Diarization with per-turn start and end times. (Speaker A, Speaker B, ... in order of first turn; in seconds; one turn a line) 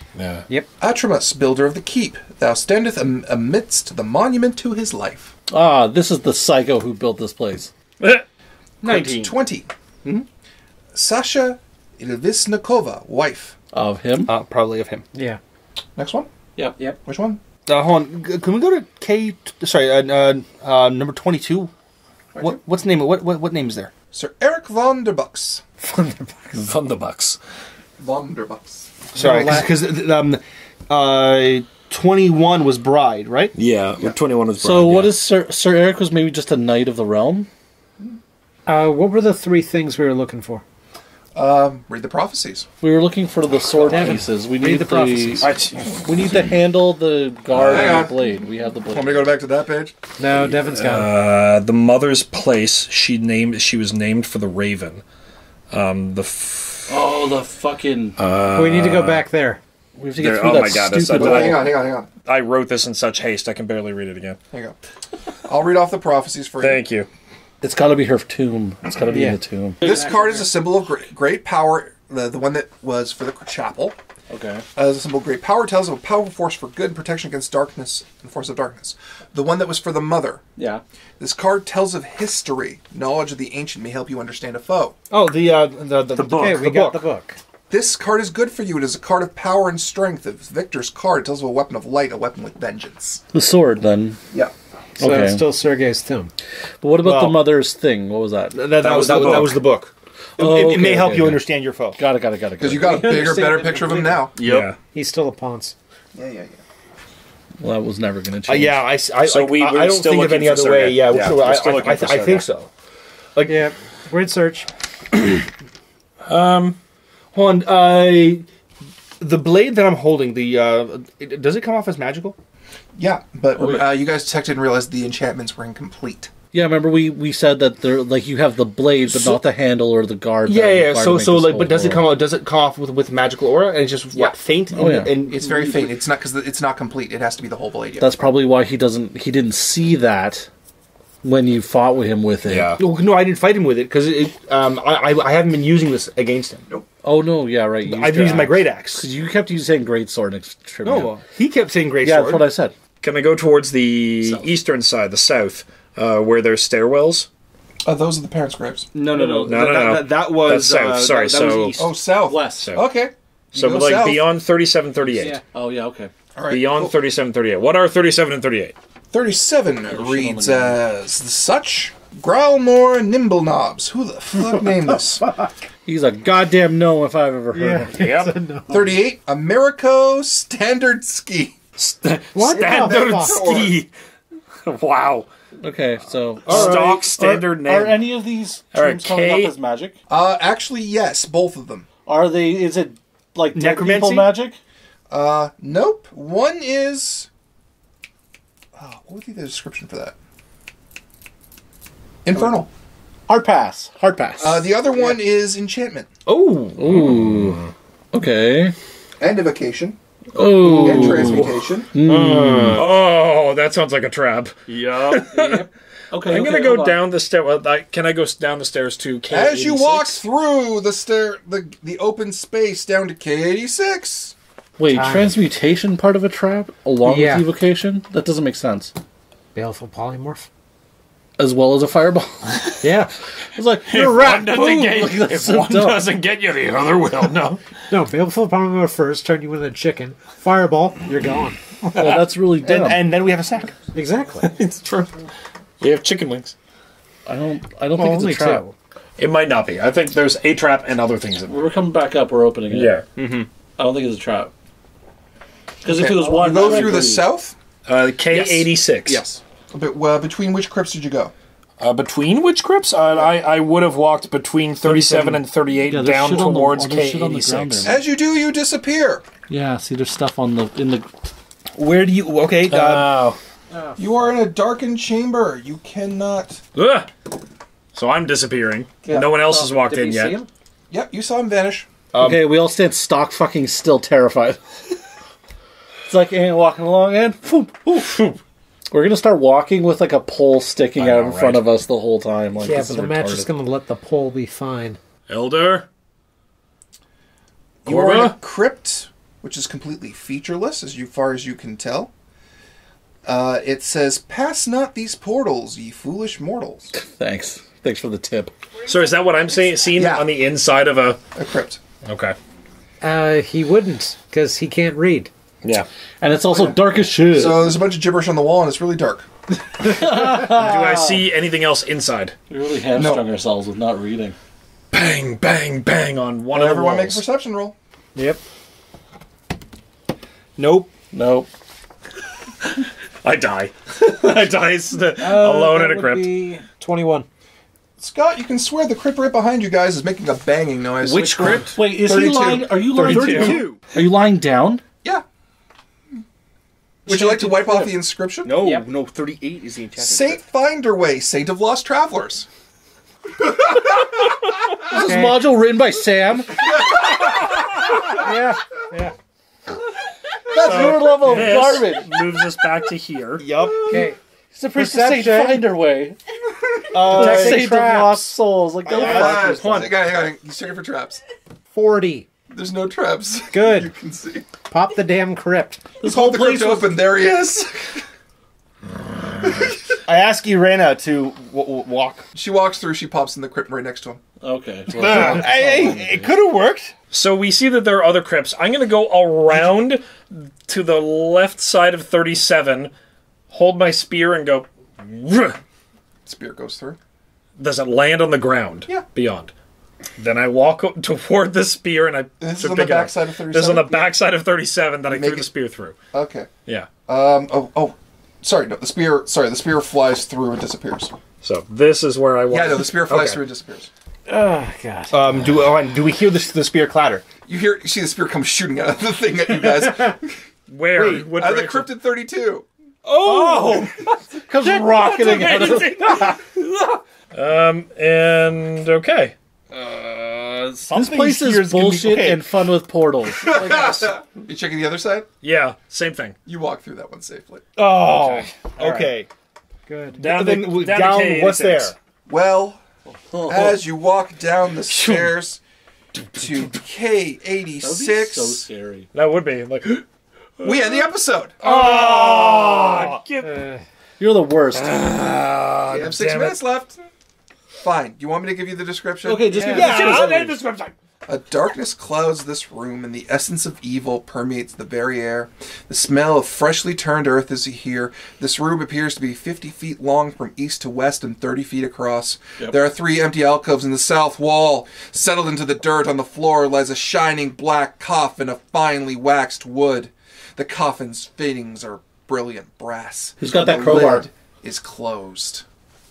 Speaker A: 0.1-0.5
Speaker B: 0.8-5.3
Speaker C: 5.5-7.7
Speaker A: 8.0-8.2
Speaker D: 8.8-9.3
Speaker B: 8.8-9.7
Speaker B: 10.9-13.5
Speaker C: 13.7-14.3
Speaker D: 14.2-15.1
Speaker E: 15.1-15.4
Speaker B: 15.9-16.3
Speaker B: 17.0-17.4
Speaker D: 17.6-21.7
Speaker D: 22.4-23.9
Speaker B: 24.1-25.6
Speaker E: 25.8-26.5
Speaker A: 26.5-27.4
Speaker B: 28.0-29.6
Speaker D: 29.1-33.5
Speaker E: 29.2-29.6
Speaker A: 33.5-35.2
Speaker C: 34.6-37.5
Speaker E: 38.7-40.6
Speaker B: 41.3-42.7
Speaker C: 42.8-49.3
Speaker E: 43.9-45.5
Speaker A: 45.4-46.5
Speaker B: 47.5-48.1
Speaker A: 47.5-48.0
Speaker B: 48.9-49.9
Speaker E: 50.2-51.1
Speaker A: 50.5-55.0
Speaker A: 55.7-57.0
Speaker C: 56.9-58.1
Speaker A: 58.2-59.2
Speaker E: 58.5-59.6
Speaker C: 60.0-61.7
Speaker A: 60.1-61.7
Speaker B: 61.1-62.1
Speaker A: 62.2-64.4
Speaker B: 65.4-66.8
Speaker A: 66.6-67.1
Speaker C: 67.6-69.8
Speaker E: 69.0-69.9
Speaker B: 69.8-74.0
Speaker D: 69.9-70.1
Speaker C: 74.3-74.7
Speaker B: 74.7-80.5
Speaker C: 80.6-80.8
Speaker B: 81.2-85.0
Speaker D: 85.1-87.0
Speaker A: 86.1-86.7
Speaker E: 86.3-87.4
Speaker B: 87.7-93.2
Speaker C: 93.3-94.2
Speaker C: 95.0-95.4
Speaker E: 95.0-96.3
Speaker C: 96.8-99.7
Speaker D: 97.0-97.5
Speaker D: 98.5-102.0
Speaker A: 98.8-99.6
Speaker C: 100.4-101.4
Speaker C: 102.0-103.1
Speaker B: 102.6-104.4
Speaker E: 102.8-104.3
Speaker D: 104.3-104.7
Speaker A: 104.4-104.8
Speaker E: 104.9-105.8
Speaker B: 106.1-106.6
Speaker C: 107.6-108.8
Speaker D: 108.5-112.7
Speaker A: 109.2-112.4
Speaker E: 113.5-114.7
Speaker A: 116.2-116.8
Speaker D: 117.3-118.5
Speaker D: 119.2-122.3
Speaker B: 123.0-126.3
Speaker C: 123.6-123.9
Speaker C: 126.5-132.2
Speaker D: 129.1-129.4
Speaker D: 130.4-135.9
Speaker C: 134.2-135.3
Speaker B: 135.3-138.3
Speaker C: 138.0-140.5
Speaker C: 141.2-142.8
Speaker A: 142.4-142.8
Speaker D: 142.8-146.7
Speaker C: 147.0-151.2
Speaker D: 147.8-149.1
Speaker D: 150.8-152.5
Speaker C: 152.0-152.7
Speaker A: 153.0-157.3
Speaker B: 154.2-154.5
Speaker B: 157.8-158.9
Speaker D: 158.9-162.0
Speaker C: 159.2-159.6
Speaker A: 159.4-161.8
Speaker B: 161.8-164.3
Speaker C: 162.2-162.7
Speaker A: 162.6-162.8
Speaker A: 163.5-165.4
Speaker E: 165.1-165.4
Speaker C: 165.5-166.1
Speaker B: 166.3-166.9
Speaker A: 166.5-168.7
Speaker B: 169.1-175.3
Speaker C: 169.9-170.8
Speaker C: 175.8-178.1
Speaker E: 177.5-178.9
Speaker A: 177.9-178.3
Speaker B: 178.7-181.6
Speaker A: 181.8-183.9
Speaker E: 182.3-183.4
Speaker B: 182.6-183.7
Speaker A: 184.6-185.3
Speaker C: 185.6-189.9
Speaker A: 186.4-188.1
Speaker D: 186.5-186.9
Speaker A: 188.7-189.5
Speaker B: 190.1-191.9
Speaker C: 192.1-194.6
Speaker D: 193.5-194.3
Speaker B: 195.1-197.3
Speaker B: 198.8-200.1
Speaker B: 202.2-202.7
Speaker C: 203.3-204.7
Speaker B: 204.4-206.1
Speaker D: 206.2-207.0
Speaker C: 206.8-207.6
Speaker A: 207.1-207.7
Speaker C: 208.1-208.7
Speaker B: 209.2-211.9
Speaker C: 210.3-212.9
Speaker D: 210.6-211.4
Speaker D: 212.0-212.9
Speaker A: 212.7-220.2
Speaker D: 214.7-215.3
Speaker C: 215.3-217.0
Speaker B: 219.3-224.3
Speaker C: 224.8-228.9
Speaker E: 224.9-225.4
Speaker E: 227.0-227.5
Speaker E: 229.5-230.5
Speaker C: 231.4-232.7
Speaker E: 232.8-233.1
Speaker C: 233.6-236.1
Speaker A: 233.8-237.6
Speaker E: 237.9-241.6
Speaker A: 241.8-242.2
Speaker C: 241.9-243.1
Speaker D: 242.6-243.8
Speaker E: 243.9-244.5
Speaker A: 244.4-245.2
Speaker A: 245.8-246.5
Speaker C: 247.2-248.6
Speaker E: 247.9-248.7
Speaker A: 249.2-251.6
Speaker C: 251.5-253.0
Speaker A: 252.7-253.1
Speaker D: 253.2-253.5
Speaker C: 253.8-254.5
Speaker C: 255.8-257.3
Speaker D: 255.9-257.1
Speaker B: 256.0-257.5
Speaker A: 257.9-259.2
Speaker D: 258.3-259.4
Speaker B: 259.7-261.3
Speaker A: 261.8-267.9
Speaker C: 264.8-268.0
Speaker B: 267.8-269.2
Speaker C: 269.5-271.1
Speaker D: 271.7-273.2
Speaker A: 272.7-273.4
Speaker E: 273.7-274.0
Speaker B: 274.0-276.6
Speaker A: 276.7-277.1
Speaker A: 277.9-280.4
Speaker E: 279.0-280.5
Speaker B: 280.9-281.9
Speaker D: 282.1-282.6
Speaker C: 282.2-284.6
Speaker C: 286.1-288.2
Speaker A: 287.9-288.4
Speaker C: 288.9-293.5
Speaker A: 291.0-291.6
Speaker E: 292.6-295.0
Speaker A: 295.3-295.9
Speaker A: 297.8-298.4
Speaker B: 297.8-302.1
Speaker B: 303.2-306.9
Speaker C: 306.9-308.5
Speaker A: 308.9-311.2
Speaker B: 309.9-310.3
Speaker B: 311.3-311.8
Speaker A: 312.0-312.4
Speaker E: 313.0-315.3
Speaker A: 315.6-315.9
Speaker C: 316.2-317.6
Speaker B: 316.5-316.8
Speaker B: 317.3-319.3
Speaker C: 319.8-321.2
Speaker A: 320.3-322.3
Speaker C: 322.5-324.3
Speaker B: 322.9-323.2
Speaker A: 324.9-327.2
Speaker B: 326.5-327.8
Speaker E: 328.1-328.4
Speaker D: 330.6-330.9
Speaker C: 331.1-331.5
Speaker A: 332.6-336.3
Speaker E: 335.2-337.3
Speaker B: 338.0-343.3
Speaker C: 341.0-344.8
Speaker E: 341.2-341.7
Speaker D: 342.9-343.8
Speaker A: 343.0-343.6
Speaker B: 347.1-348.6
Speaker D: 347.1-347.6
Speaker C: 347.1-347.8
Speaker D: 348.4-350.4
Speaker B: 350.0-352.5
Speaker B: 353.5-354.1
Speaker C: 354.9-356.7
Speaker E: 354.9-355.4
Speaker E: 358.1-359.1
Speaker B: 360.5-361.3
Speaker C: 360.5-362.1
Speaker A: 360.6-363.5
Speaker D: 363.4-364.1
Speaker E: 363.9-364.2
Speaker C: 364.5-366.2
Speaker E: 364.7-365.7
Speaker D: 366.9-367.6
Speaker C: 367.0-369.9
Speaker E: 367.1-368.3
Speaker B: 368.9-371.2
Speaker D: 368.9-370.0
Speaker E: 371.7-372.3
Speaker B: 372.5-374.5
Speaker E: 373.5-373.9
Speaker E: 374.7-375.8
Speaker C: 376.0-376.9
Speaker B: 376.0-378.0
Speaker B: 379.4-379.8
Speaker D: 380.1-382.3
Speaker B: 382.3-384.2
Speaker C: 384.4-386.3
Speaker D: 384.9-386.9
Speaker B: 385.0-385.4
Speaker A: 387.1-392.9
Speaker A: 393.5-395.6
Speaker B: 396.2-397.0
Speaker A: 397.6-399.5
Speaker A: 400.2-405.9
Speaker B: 402.4-404.1
Speaker B: 405.1-405.5
Speaker B: 406.1-406.5
Speaker B: 407.1-411.1
Speaker A: 411.4-413.4
Speaker B: 412.5-413.9
Speaker E: 414.3-415.2
Speaker D: 415.1-417.3
Speaker B: 417.4-420.3
Speaker A: 420.7-421.9
Speaker D: 420.9-421.3
Speaker B: 421.2-422.6
Speaker D: 423.0-424.0
Speaker C: 424.5-426.4
Speaker A: 424.6-429.3
Speaker D: 429.7-432.6
Speaker C: 430.9-434.1
Speaker B: 433.3-435.3
Speaker A: 435.4-436.4
Speaker B: 436.4-437.6
Speaker D: 437.8-439.3
Speaker A: 438.1-439.1
Speaker E: 439.9-440.2
Speaker A: 440.2-441.9
Speaker D: 440.2-441.9
Speaker B: 442.3-442.8
Speaker C: 443.3-443.8
Speaker B: 443.4-445.6
Speaker A: 444.9-445.3
Speaker B: 446.3-448.7
Speaker C: 447.8-449.1
Speaker A: 449.1-450.0
Speaker A: 450.6-453.6
Speaker B: 450.6-451.6
Speaker D: 451.6-453.2
Speaker E: 453.4-453.8
Speaker C: 454.2-455.0
Speaker A: 454.7-456.6
Speaker B: 455.9-457.0
Speaker B: 457.8-460.2
Speaker D: 459.2-460.6
Speaker E: 459.6-459.9
Speaker A: 459.6-460.9
Speaker B: 461.2-485.6
Speaker C: 483.4-484.3